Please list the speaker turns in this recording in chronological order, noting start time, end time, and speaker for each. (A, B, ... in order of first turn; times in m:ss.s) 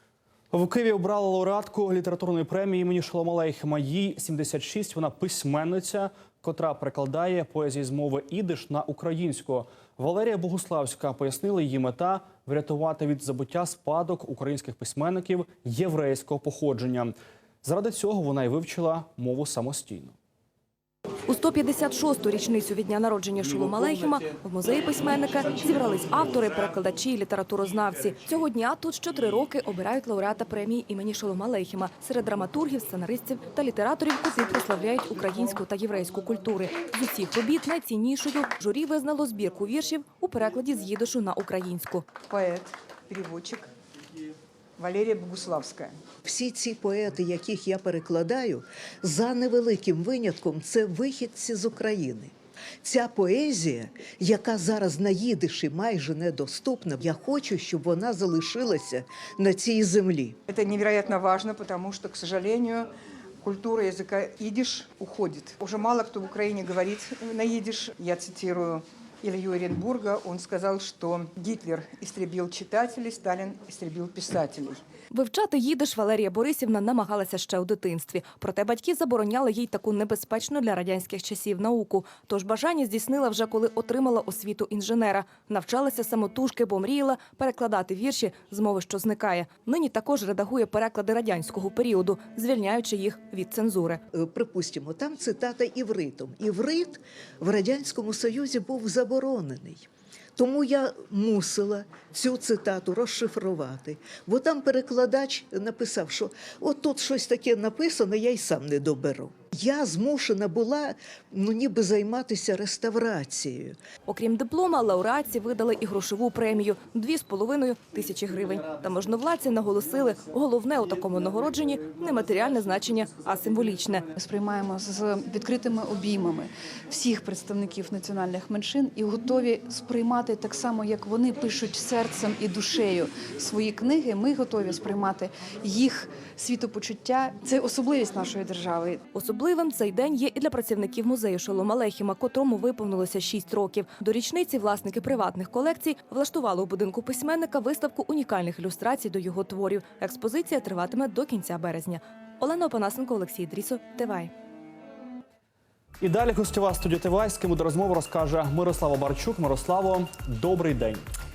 0:00.5-0:20.1 A
0:21.3-0:42.1 B
0:42.2-0:43.7 C
0:44.8-0:46.0 C
0:46.2-1:00.4 D
1:00.5-1:02.9 C
1:03.4-1:14.8 C
1:15.1-1:34.0 B
1:34.1-1:53.8 D
1:54.1-2:04.1 B
2:04.2-2:19.0 E
2:19.1-2:34.3 B
2:36.0-2:41.0 A